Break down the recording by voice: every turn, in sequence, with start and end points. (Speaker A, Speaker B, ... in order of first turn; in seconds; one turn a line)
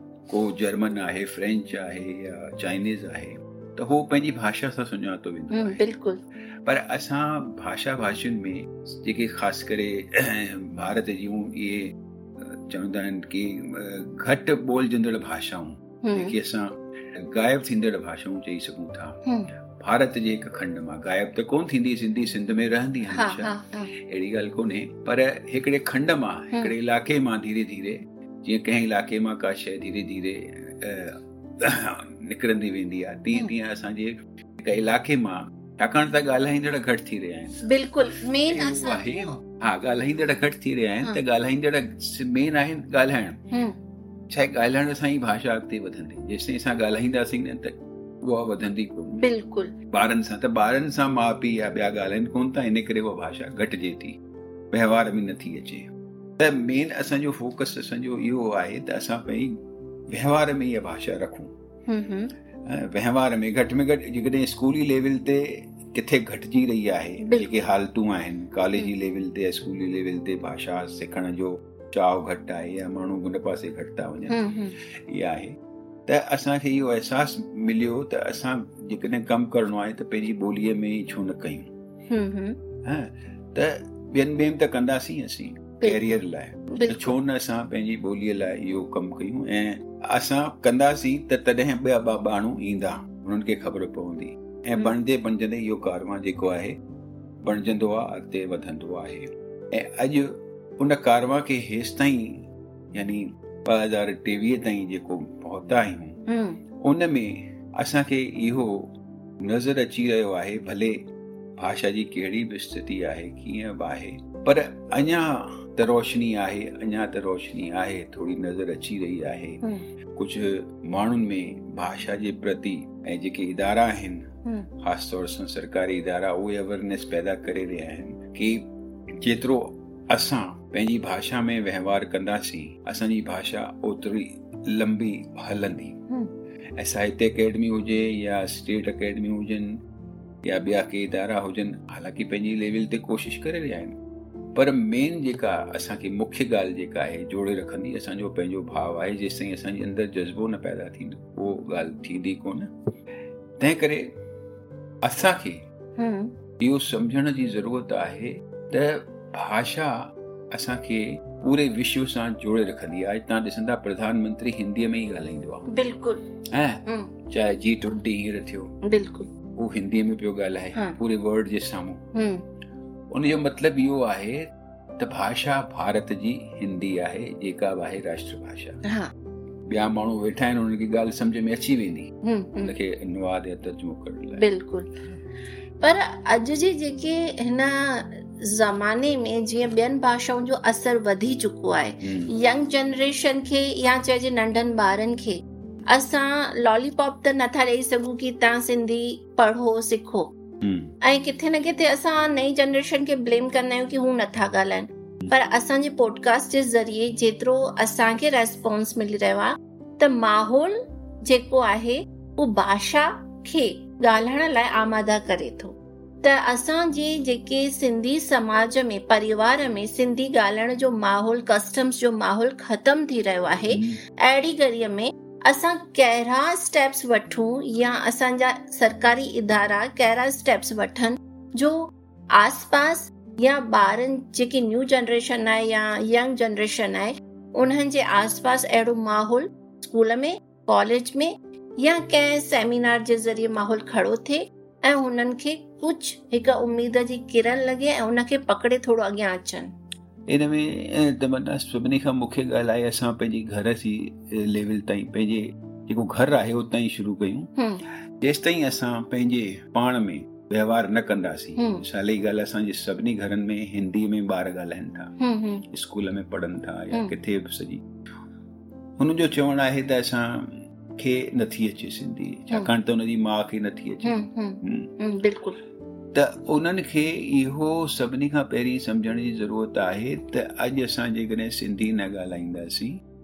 Speaker A: 0.3-5.8
Speaker B: 5.5-6.2
Speaker A: 6.7-19.2
Speaker B: 16.0-16.4
Speaker B: 19.2-19.5
Speaker A: 19.8-37.6
Speaker B: 23.1-23.9
Speaker B: 37.6-39.3
Speaker A: 38.5-43.4
Speaker A: 44.3-49.2
Speaker B: 49.2-49.7
Speaker A: 49.9-54.2
Speaker A: 54.7-59.6
Speaker A: 60.1-61.5
Speaker B: 61.9-62.3
Speaker A: 62.7-75.5
Speaker B: 67.2-67.6
Speaker B: 74.3-74.8
Speaker A: 76.1-81.7
Speaker B: 82.1-82.6
Speaker A: 82.8-96.8
Speaker B: 86.7-87.2
Speaker A: 97.4-106.2
Speaker B: 106.3-106.6
Speaker A: 106.8-111.0
Speaker A: 111.6-119.6
Speaker A: 120.2-124.3
Speaker A: 124.8-128.7
Speaker A: 129.2-136.0
Speaker A: 136.8-139.8
Speaker A: 140.4-144.0
Speaker A: 144.6-152.7
Speaker A: 153.6-154.1
Speaker A: 155.0-155.6
Speaker B: 156.0-156.3
Speaker A: 156.6-160.0
Speaker A: 160.5-165.7
Speaker B: 165.7-166.2
Speaker A: 166.5-168.7
Speaker B: 166.9-167.1
Speaker B: 168.8-169.3
Speaker A: 169.6-172.1
Speaker B: 172.1-172.4
Speaker A: 173.1-178.8
Speaker B: 178.8-179.1
Speaker A: 179.7-182.1
Speaker B: 182.2-182.7
Speaker A: 182.6-184.5
Speaker B: 184.3-184.9
Speaker B: 185.8-200.3
Speaker A: 192.0-192.3
Speaker A: 200.6-200.9
Speaker B: 201.0-249.7
Speaker A: 223.7-224.0
Speaker A: 250.3-257.5
Speaker B: 257.6-257.8
Speaker A: 258.2-265.1
Speaker B: 261.6-261.8
Speaker B: 265.2-265.6
Speaker A: 265.7-267.8
Speaker A: 269.0-274.9
Speaker B: 274.0-275.6
Speaker A: 276.1-283.0